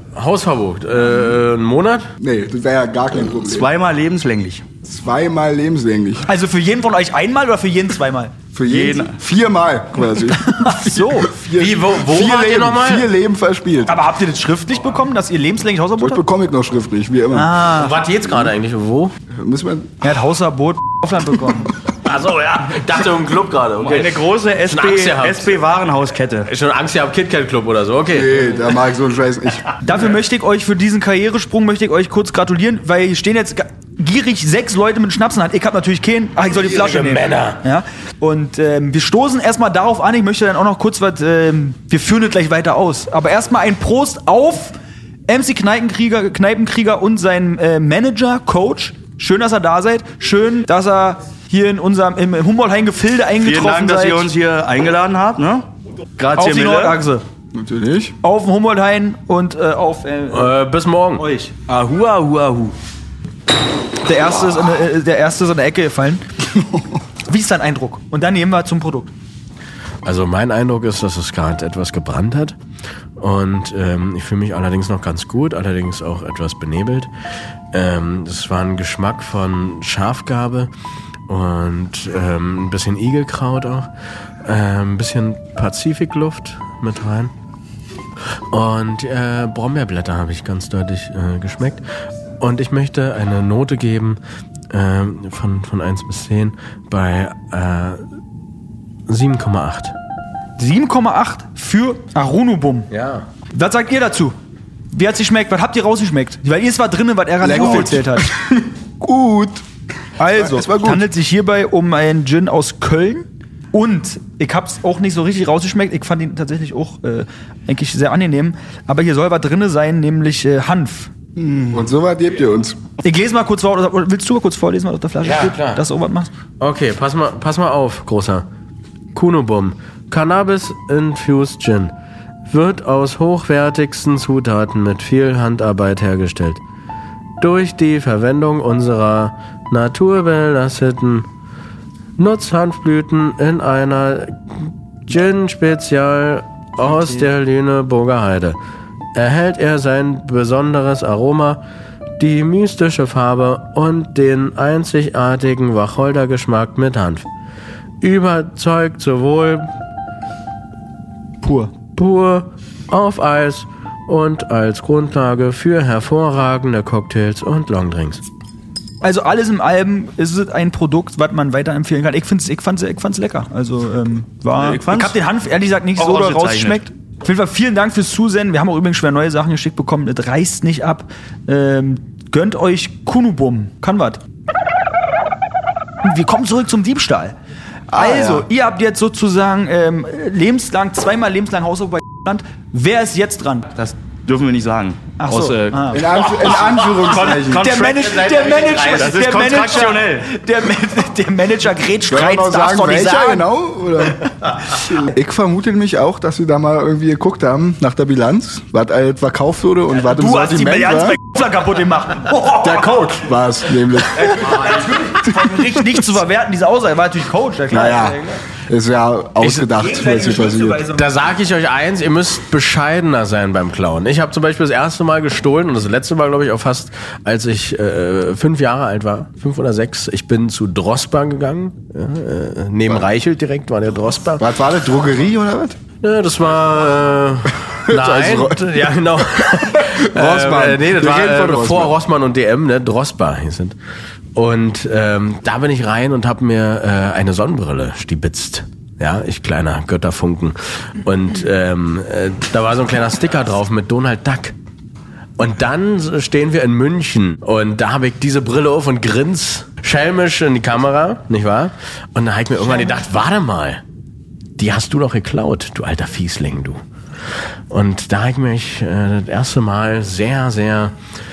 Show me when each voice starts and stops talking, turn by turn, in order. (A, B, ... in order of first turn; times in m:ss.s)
0:00.1-0:02.1 A
0:02.2-0:03.7 B
0:03.3-0:04.6 C
0:04.8-0:06.3 B
0:06.3-0:08.4 D
0:08.5-0:14.0 B
0:08.7-0:09.2 C
0:10.3-0:11.3 D
0:11.5-0:13.1 A
0:13.9-0:16.2 D
0:16.0-0:17.5 B
0:17.3-0:17.9 D
0:17.7-0:19.1 A
0:19.3-0:20.0 B
0:20.0-0:21.7 D
0:22.0-0:25.6 A
0:23.8-0:26.5 C
0:26.4-0:28.7 A
0:28.1-0:29.7 B
0:29.8-0:44.8 D
0:36.5-0:37.6 A
0:45.3-0:54.3 D
0:53.4-0:57.0 C
0:56.4-0:57.2 D
0:57.5-0:58.2 B
0:58.2-1:00.5 D
1:00.3-1:01.3 A
1:01.2-1:01.6 D
1:01.6-1:02.8 C
1:04.0-1:06.2 D
1:07.3-1:09.1 D
1:10.0-1:12.6 A
1:13.2-1:17.1 A
1:17.7-1:20.7 A
1:21.3-1:23.9 A
1:24.4-1:27.3 A
1:28.5-1:31.8 A
1:32.4-1:34.2 A
1:34.7-1:38.0 A
1:39.1-1:39.9 A
1:40.6-1:42.9 D
1:42.9-1:43.3 A
1:43.5-1:44.4 D
1:44.9-1:48.3 D
1:47.4-1:49.6 B
1:50.2-2:01.1 D
1:50.3-1:51.1 B
2:01.4-2:02.8 B
2:03.0-2:06.3 D
2:05.2-2:05.8 A
2:06.6-2:08.4 A
2:09.1-2:11.9 A
2:12.5-2:16.6 A
2:17.4-2:21.3 A
2:22.2-2:28.6 A
2:26.9-2:27.2 D
2:29.1-2:31.6 A
2:32.2-2:37.2 A
2:38.0-2:39.7 A
2:41.4-2:41.7 D
2:41.9-2:48.2 A
2:49.0-3:04.2 D
2:54.6-2:55.2 C
2:56.0-2:56.8 C
3:06.0-3:07.4 D
3:07.9-3:08.5 B
3:07.9-3:13.7 D
3:13.7-3:16.0 C
3:15.2-3:16.0 D
3:15.9-3:17.7 B
3:16.2-3:20.0 A
3:17.3-3:18.0 C
3:17.5-3:23.5 D
3:18.9-3:20.3 C
3:22.1-3:31.2 B
3:30.1-3:33.1 D
3:32.4-3:34.7 B
3:34.2-3:38.3 D
3:37.7-3:40.8 B
3:39.4-3:41.1 D
3:40.9-3:54.4 A
3:54.4-3:55.8 B
3:56.0-4:03.7 A
3:57.9-3:58.6 B
3:59.5-4:01.9 B
4:04.4-4:14.5 A
4:15.4-4:23.8 A
4:24.6-4:26.8 A
4:27.7-4:30.9 A